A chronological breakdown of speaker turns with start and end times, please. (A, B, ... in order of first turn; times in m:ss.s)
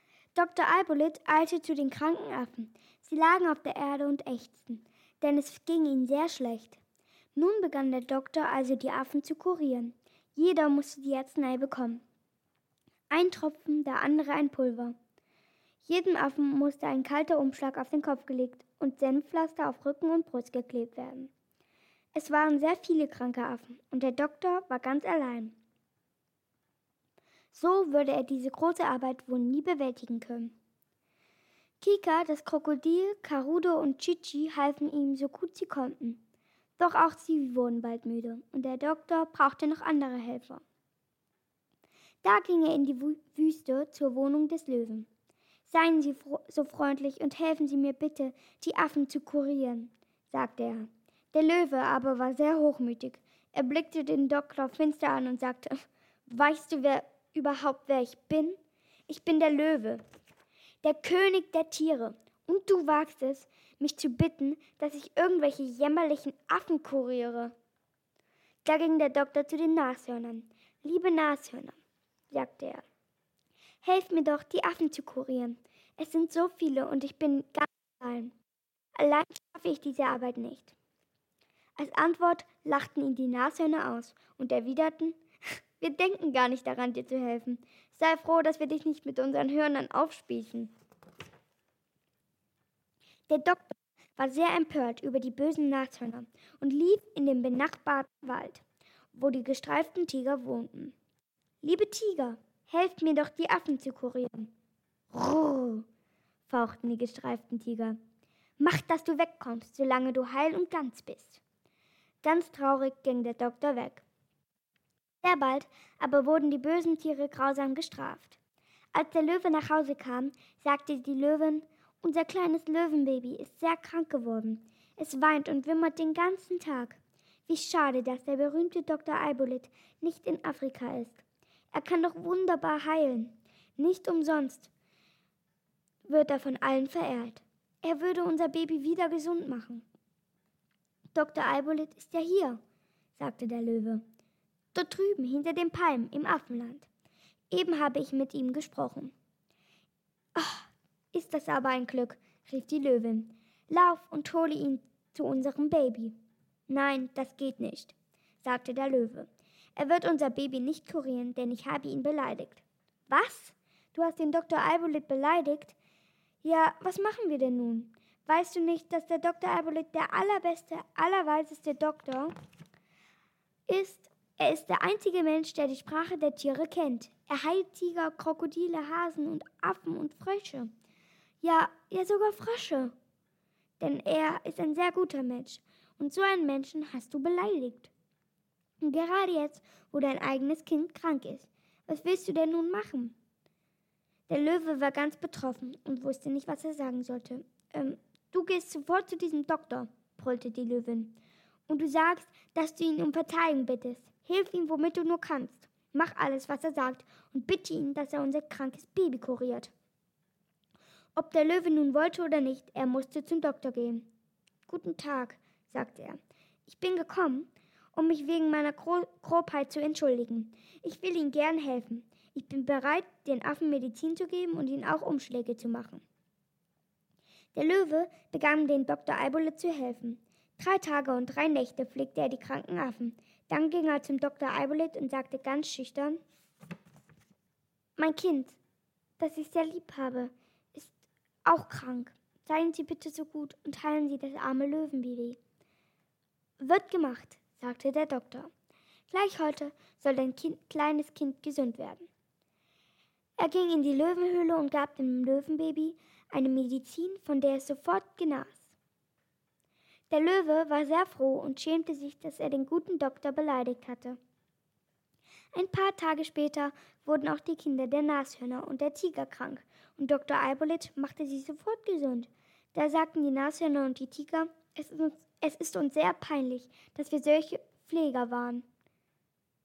0:00.3-0:06.8 A
0:07.3-0:12.0 A
0:13.1-0:14.9 A
0:15.8-0:21.3 A
0:22.1-0:25.6 A
0:27.5-0:30.5 A
0:31.8-0:36.2 A
0:36.8-0:40.6 A
0:42.2-0:45.1 A
0:45.7-1:00.0 A
1:00.8-1:07.5 A
1:08.6-1:11.8 A
1:12.3-1:12.8 A
1:13.8-1:18.3 A
1:19.0-1:20.7 A
1:21.8-1:25.2 A
1:25.8-1:30.7 A
1:33.3-1:40.9 A
1:41.6-1:44.5 A
1:45.1-1:45.8 A
1:46.5-1:48.0 A
1:48.6-1:51.4 A
1:52.2-1:54.0 A
1:55.2-1:58.4 A
1:58.9-2:14.7 A
2:16.1-2:19.8 A
2:21.1-2:22.6 A
2:23.2-2:24.0 A
2:24.7-2:26.9 A
2:27.5-2:29.1 A
2:30.3-2:36.2 A
2:36.7-2:45.8 A
2:46.4-2:52.3 A
2:53.7-3:00.7 A
3:01.4-3:02.9 A
3:03.8-3:07.9 A
3:08.8-3:13.2 A
3:14.3-3:21.2 A
3:21.7-3:29.7 A
3:31.2-3:34.1 A
3:34.7-3:46.0 A
3:47.5-3:56.2 A
3:58.0-3:58.6 A
3:59.2-4:00.9 A
4:01.4-4:05.4 A
4:06.6-4:08.5 A
4:09.1-4:12.1 A
4:13.4-4:18.7 A
4:20.1-4:24.2 A
4:25.5-4:38.6 A